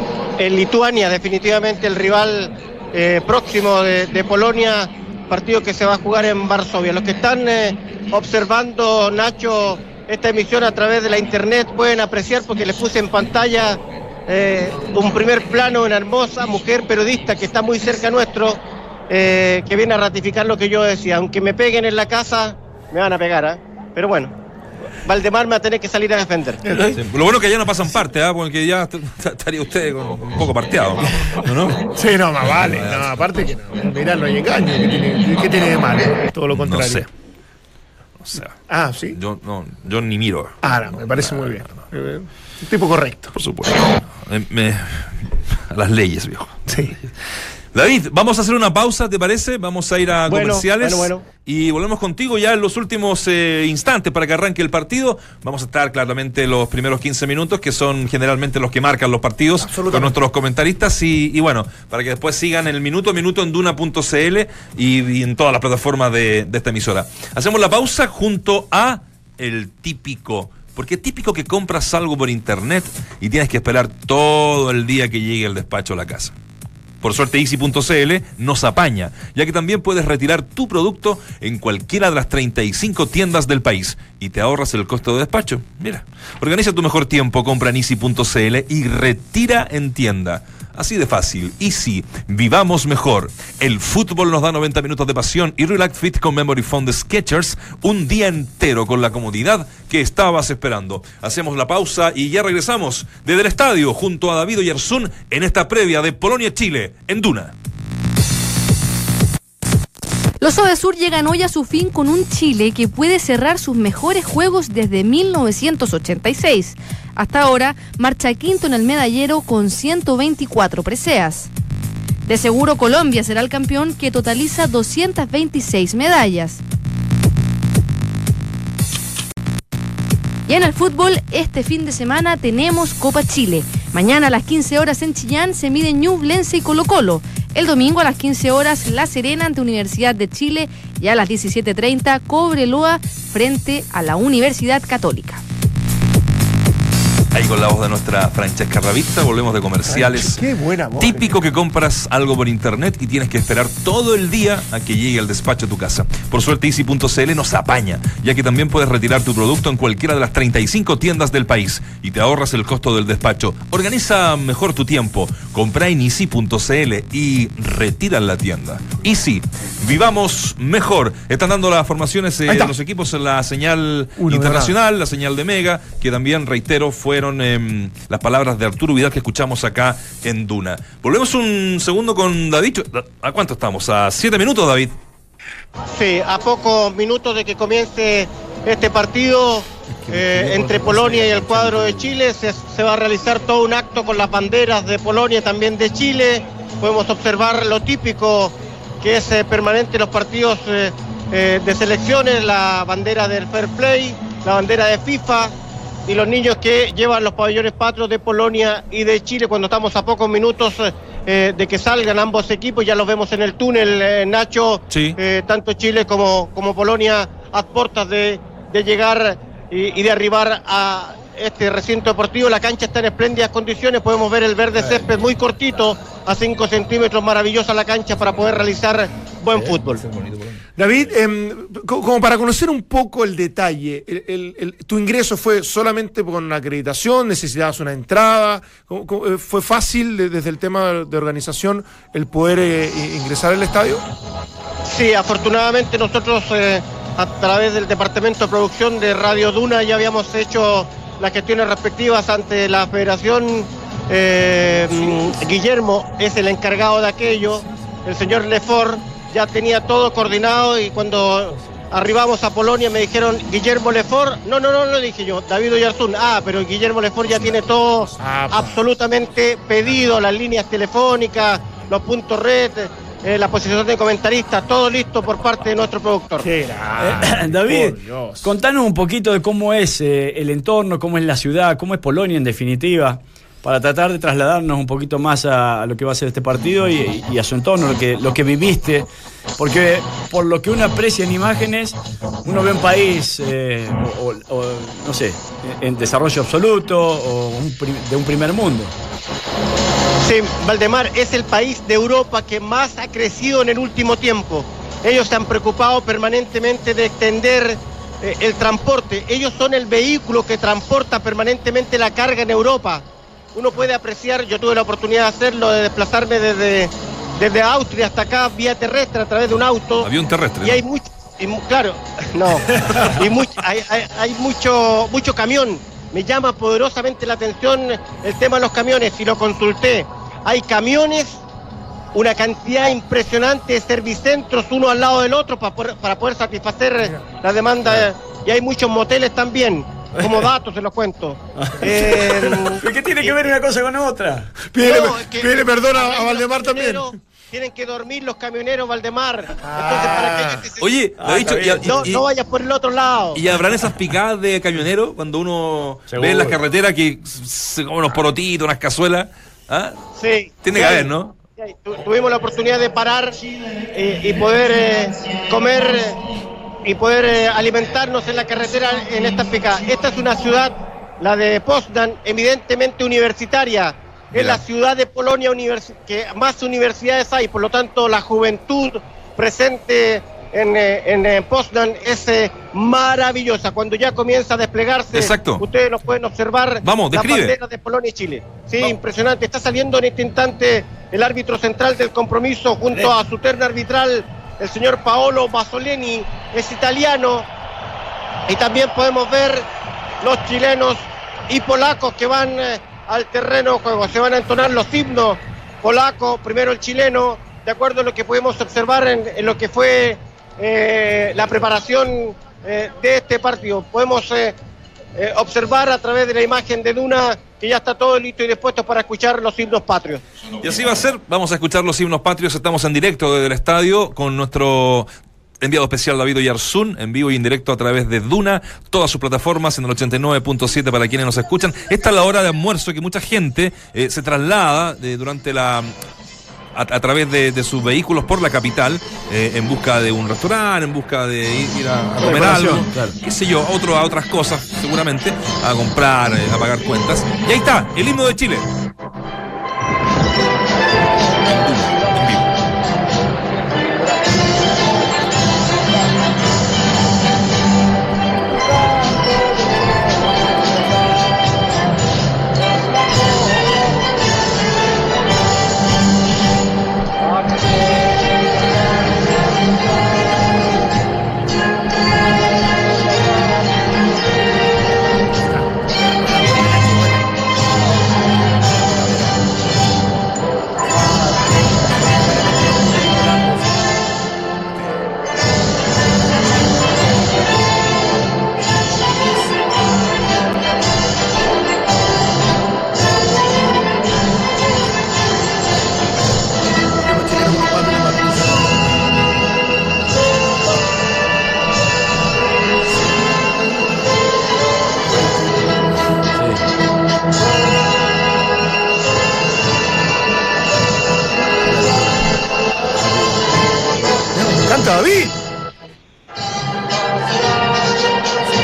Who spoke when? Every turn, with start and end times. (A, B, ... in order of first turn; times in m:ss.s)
0:00.4-0:24.3 A
0:25.0-0:26.7 A
0:26.7-0:27.0 B
0:26.9-0:33.2 C
0:31.9-0:37.1 B
0:36.5-0:37.1 C
0:38.2-0:38.6 C
0:38.7-0:39.2 B
0:39.1-0:41.6 C
0:40.6-0:43.3 B
0:43.3-0:46.9 C
0:46.7-0:47.0 B
0:47.7-1:16.3 C
0:50.3-0:51.2 B
0:50.3-0:51.0 A
0:59.6-1:00.2 B
1:17.0-1:47.5 C
1:50.4-2:01.5 D
2:02.2-2:06.6 D
2:10.5-2:25.4 D
2:27.3-2:30.4 C
2:29.8-2:31.5 B
2:31.0-3:04.9 C
2:52.5-2:52.7 B
2:54.2-2:54.8 B
3:05.9-3:25.5 A
3:09.9-3:12.1 E
3:26.1-3:50.0 A
3:34.9-3:35.2 C
3:50.1-3:50.6 C
3:50.8-4:04.0 B
4:04.8-4:36.5 A
4:28.2-4:28.8 B
4:36.4-4:38.5 B
4:37.0-4:49.1 E
4:49.6-4:58.9 E
5:00.2-5:20.1 A
5:20.0-5:20.8 C
5:20.6-5:31.4 A
5:32.1-5:43.4 A
5:41.6-5:44.5 E
5:44.7-5:47.1 B
5:44.8-5:50.9 A
5:49.6-5:50.6 B
5:50.8-5:52.2 C
5:51.2-5:52.1 E
5:51.8-5:53.4 A
5:53.3-6:00.0 C
5:56.1-5:56.6 E
6:00.2-6:03.4 A
6:00.6-6:01.3 C
6:03.9-6:06.2 A
6:06.8-6:37.5 A
6:14.3-6:14.6 C
6:25.1-6:25.6 C
6:26.8-6:27.6 C
6:38.5-6:39.7 A
6:40.2-6:54.5 A
6:55.2-7:00.2 A
7:00.6-7:05.1 C
7:05.6-7:15.9 C
7:16.7-7:28.6 C
7:22.2-7:22.9 B
7:31.4-7:32.5 C
7:56.3-7:56.6 B
8:17.0-8:18.5 B
8:26.3-8:26.6 E
8:33.0-8:33.4 E
8:34.3-8:35.4 B